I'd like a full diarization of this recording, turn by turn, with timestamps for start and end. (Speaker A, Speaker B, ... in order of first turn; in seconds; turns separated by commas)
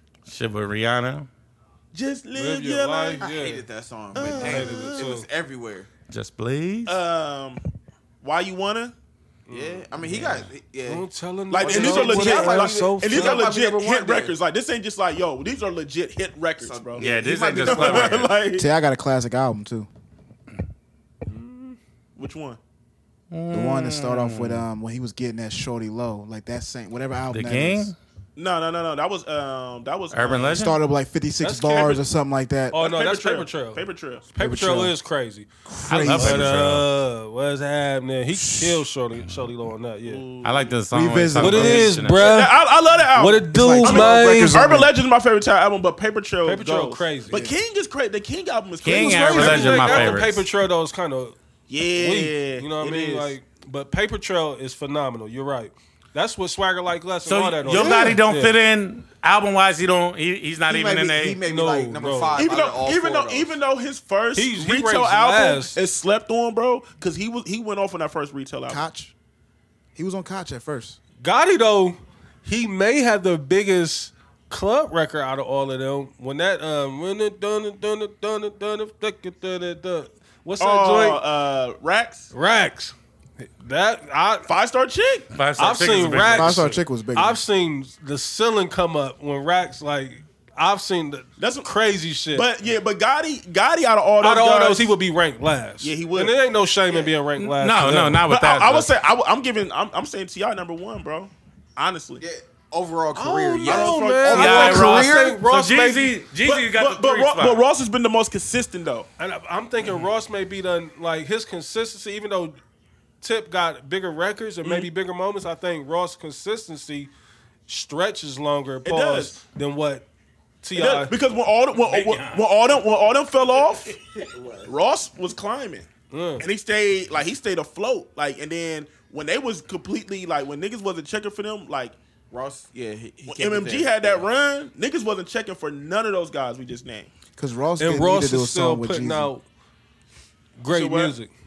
Speaker A: 0.3-1.3, Speaker B: 1.9-3.2, Speaker C: 2.4-3.6, Speaker D: 3.2-5.9, Speaker B: 4.2-5.1, Speaker C: 4.3-5.3, Speaker A: 6.1-7.0, Speaker B: 6.9-7.6, Speaker B: 8.2-8.9, Speaker C: 9.5-9.9, Speaker D: 9.5-11.1, Speaker A: 10.0-10.5, Speaker C: 10.9-13.5, Speaker B: 11.5-17.1, Speaker D: 11.6-14.3, Speaker D: 16.6-18.2, Speaker A: 17.0-18.4, Speaker B: 17.6-18.7, Speaker E: 18.5-19.9, Speaker C: 21.3-21.8, Speaker B: 22.2-22.6, Speaker A: 23.3-24.6, Speaker E: 23.5-27.9, Speaker A: 27.3-28.0, Speaker B: 28.4-30.6, Speaker A: 30.1-30.8, Speaker E: 30.6-32.7, Speaker C: 31.4-32.0, Speaker C: 32.7-40.2, Speaker B: 32.7-34.3, Speaker E: 34.4-35.0, Speaker E: 35.7-36.8, Speaker A: 35.9-36.9, Speaker E: 38.3-38.8, Speaker B: 40.0-40.8, Speaker A: 40.4-42.4, Speaker E: 40.9-42.0, Speaker C: 41.4-42.6, Speaker B: 42.2-50.2, Speaker C: 43.1-44.6, Speaker E: 43.5-44.9, Speaker C: 46.5-47.5, Speaker A: 48.8-50.4, Speaker C: 49.0-51.4, Speaker B: 51.7-53.4, Speaker C: 51.9-58.6, Speaker A: 57.3-61.4, Speaker B: 57.7-58.2, Speaker D: 60.7-63.5, Speaker C: 61.5-62.4, Speaker B: 62.4-68.8, Speaker C: 64.4-65.8, Speaker E: 68.7-69.1, Speaker E: 70.0-71.0, Speaker C: 71.2-81.2, Speaker B: 80.6-82.3, Speaker C: 82.3-84.5, Speaker B: 84.5-85.3, Speaker A: 85.3-86.7, Speaker C: 85.6-92.5, Speaker E: 86.3-87.4, Speaker B: 91.4-91.7, Speaker B: 92.3-94.9, Speaker C: 94.2-98.2, Speaker B: 95.8-96.4, Speaker A: 97.4-98.9, Speaker B: 98.3-102.2, Speaker D: 102.2-105.4, Speaker C: 103.2-106.1, Speaker B: 103.6-104.8, Speaker A: 104.3-107.6, Speaker B: 106.4-109.1, Speaker C: 109.2-112.6, Speaker C: 113.2-117.1, Speaker C: 117.7-120.1, Speaker B: 118.8-119.4, Speaker C: 120.6-121.1, Speaker B: 120.8-124.0, Speaker A: 121.8-122.4, Speaker D: 124.2-124.7, Speaker B: 124.7-125.9, Speaker C: 126.1-126.5, Speaker B: 126.4-132.0, Speaker D: 132.3-134.2, Speaker B: 133.3-137.1, Speaker E: 137.3-139.3, Speaker C: 137.8-139.4, Speaker C: 140.6-141.3, Speaker B: 140.7-141.2